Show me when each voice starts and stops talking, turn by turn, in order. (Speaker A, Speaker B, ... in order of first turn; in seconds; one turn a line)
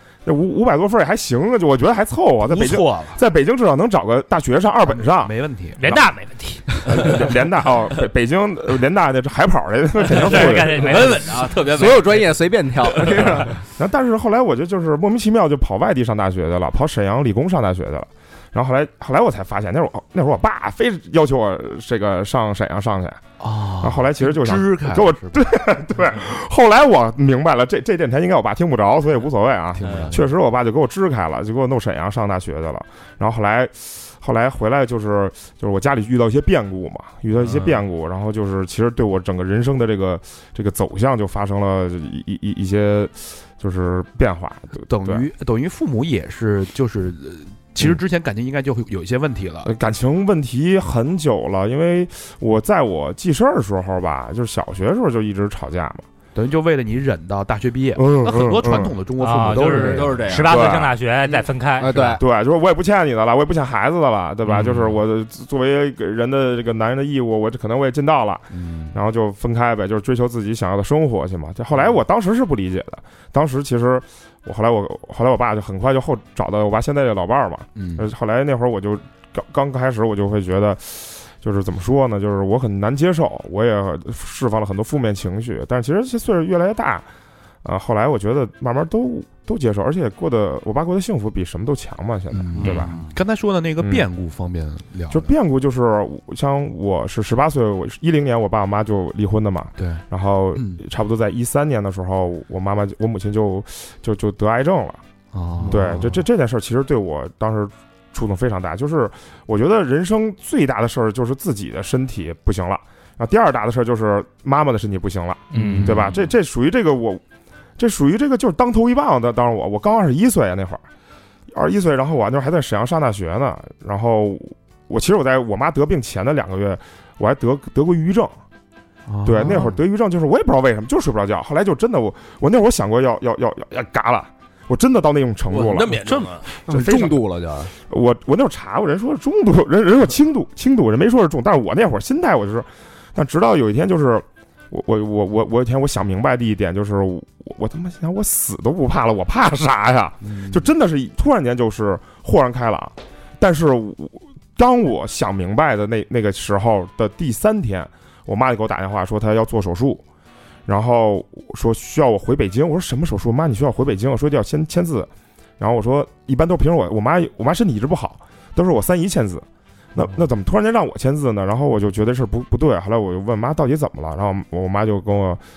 Speaker A: 0.2-6.1
Speaker B: 2.5-3.2
Speaker B: 5.0-5.8
Speaker C: 5.8-7.0
Speaker A: 6.8-11.1
Speaker C: 10.1-11.5
Speaker D: 10.7-12.2
Speaker E: 11.7-13.6
Speaker A: 13.8-23.2
Speaker B: 23.4-25.5
Speaker A: 23.8-45.3
Speaker B: 29.8-30.2
Speaker B: 37.4-37.8
Speaker B: 44.9-49.7
Speaker A: 49.6-56.1
Speaker B: 56.4-60.3
Speaker A: 58.0-59.0
Speaker C: 59.2-62.1
Speaker D: 59.8-60.8
Speaker A: 60.4-61.0
Speaker E: 61.2-62.2
Speaker A: 62.1-87.1
Speaker B: 64.5-65.0
Speaker B: 68.5-69.0
Speaker B: 77.8-78.1
Speaker A: 87.6-93.0
Speaker B: 92.3-95.3
Speaker D: 92.5-93.1
Speaker A: 93.8-94.1
Speaker A: 95.1-105.0
Speaker B: 99.8-100.0
Speaker B: 100.5-100.8
Speaker B: 105.3-106.2
Speaker A: 105.7-117.2
Speaker C: 115.5-116.0
Speaker B: 115.5-116.1
Speaker A: 117.8-120.8
Speaker A: 121.5-128.4
Speaker B: 129.1-129.8
Speaker A: 129.2-136.0
Speaker D: 135.5-136.5
Speaker E: 136.1-137.7
Speaker A: 136.7-137.2
Speaker A: 137.9-160.0
Speaker B: 150.4-150.6
Speaker A: 160.7-175.4